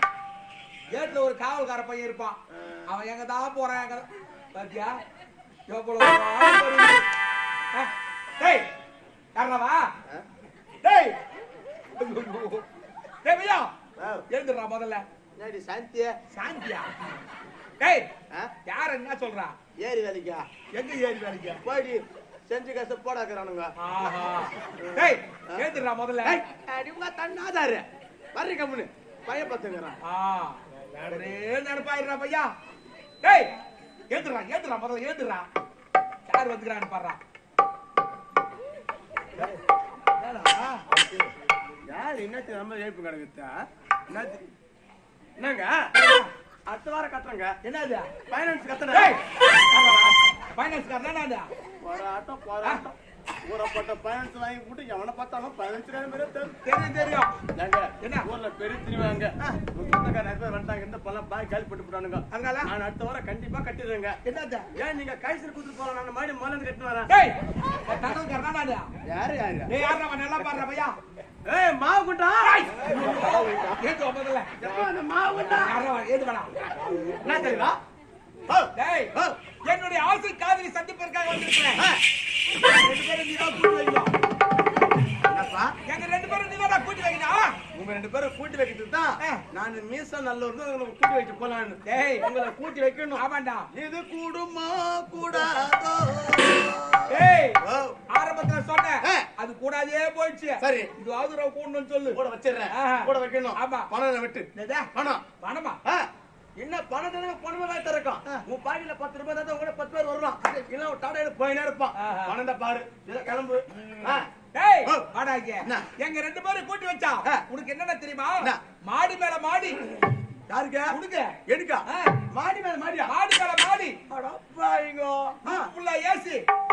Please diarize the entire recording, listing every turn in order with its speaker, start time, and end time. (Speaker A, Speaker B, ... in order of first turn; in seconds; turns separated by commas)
Speaker A: 0.9-5.0, Speaker A: 5.7-7.0, Speaker A: 7.7-8.7, Speaker A: 9.3-9.9, Speaker A: 10.8-11.2, Speaker A: 11.9-12.6, Speaker A: 13.2-13.7, Speaker B: 14.0-14.2, Speaker A: 14.3-15.0, Speaker B: 15.3-16.1, Speaker A: 16.3-16.9, Speaker A: 17.8-18.1, Speaker A: 18.6-19.5, Speaker B: 19.8-20.4, Speaker A: 20.7-21.6, Speaker B: 21.6-23.7, Speaker A: 23.8-26.4, Speaker B: 24.7-25.7, Speaker B: 26.2-30.0, Speaker A: 30.0-32.5, Speaker A: 33.2-33.5, Speaker A: 34.1-35.5, Speaker A: 36.3-37.2, Speaker A: 40.2-40.8, Speaker B: 41.9-44.4, Speaker B: 45.4-45.9, Speaker A: 45.9-46.3, Speaker B: 46.7-47.6, Speaker A: 47.6-48.1, Speaker B: 48.3-49.2, Speaker A: 48.9-51.5, Speaker B: 51.8-56.6, Speaker A: 56.6-57.3, Speaker B: 57.5-64.2, Speaker A: 58.0-58.3, Speaker A: 62.3-62.7, Speaker A: 64.2-64.7, Speaker B: 64.7-67.1, Speaker A: 67.1-68.9, Speaker B: 69.0-69.7, Speaker A: 69.7-71.0, Speaker B: 71.4-73.8, Speaker A: 72.4-74.5, Speaker B: 74.6-75.9, Speaker A: 75.6-77.7, Speaker B: 77.2-77.8, Speaker B: 78.5-79.4, Speaker A: 78.8-79.1, Speaker A: 79.6-81.8, Speaker B: 81.8-82.0, Speaker A: 82.5-84.1, Speaker B: 85.2-85.7, Speaker A: 85.9-87.5, Speaker B: 87.7-98.0, Speaker A: 89.2-89.5, Speaker A: 91.8-92.3, Speaker A: 93.1-93.7, Speaker A: 97.1-102.2, Speaker B: 99.0-99.3, Speaker B: 100.6-100.9, Speaker B: 102.1-105.2, Speaker A: 102.7-103.9, Speaker A: 104.5-104.9, Speaker A: 105.4-105.8, Speaker B: 105.8-114.3, Speaker A: 112.0-112.3, Speaker A: 113.8-119.8, Speaker B: 115.6-115.9, Speaker B: 119.9-123.1, Speaker A: 120.9-121.3, Speaker A: 121.9-122.2, Speaker A: 123.1-124.0, Speaker B: 124.1-125.7, Speaker A: 125.4-126.4